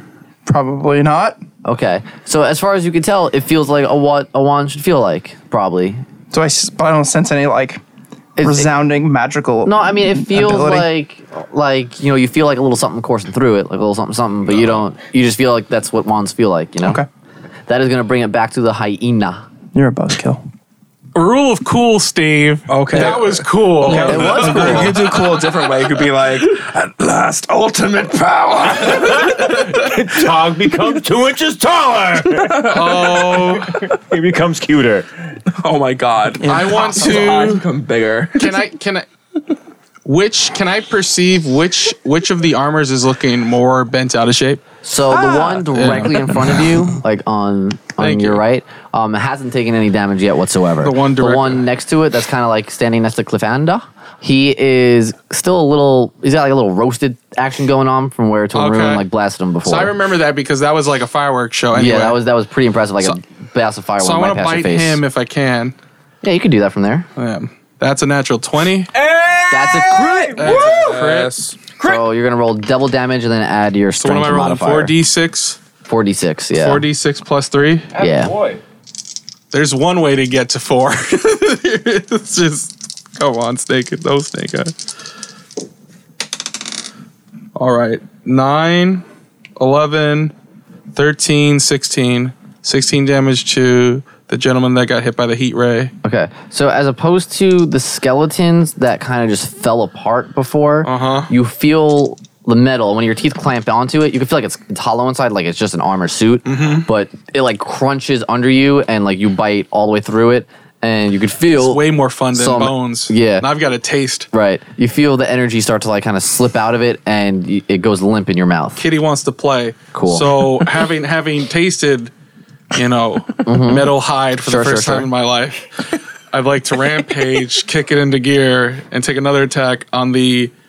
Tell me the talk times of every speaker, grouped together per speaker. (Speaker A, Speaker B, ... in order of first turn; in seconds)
Speaker A: 0.5-1.4, 6.3-7.8, 8.4-10.9, 19.7-20.4, 23.8-25.1, 36.4-37.5
Speaker B: 1.6-6.0, 8.4-8.7, 9.7-17.0, 17.7-19.4, 23.9-24.9, 44.8-60.0, 61.7-65.0, 66.2-67.1, 69.5-70.4, 71.8-75.0, 75.9-76.9, 78.0-78.3, 96.0-111.8, 112.3-113.5, 114.3-118.8, 119.9-120.4, 123.5-125.1
Speaker C: 21.1-25.1, 32.6-33.7, 36.4-37.6, 38.4-39.1, 40.0-44.6, 45.7-46.3, 48.0-48.4, 50.8-51.7, 58.5-59.0, 59.6-62.2, 64.0-65.8, 67.2-69.1, 70.3-71.5, 74.0-75.6, 76.5-77.9, 79.5-84.8, 87.5-89.0, 89.6-90.3, 90.9-95.9, 100.8-101.3, 106.5-106.9, 111.5-114.3, 118.8-122.1, 122.7-125.7, 126.3-130.5
Speaker D: 22.7-29.8, 32.4-33.5, 35.5-38.7, 45.1-45.6, 70.4-71.5
Speaker E: 28.8-35.1, 69.3-71.1, 77.9-78.6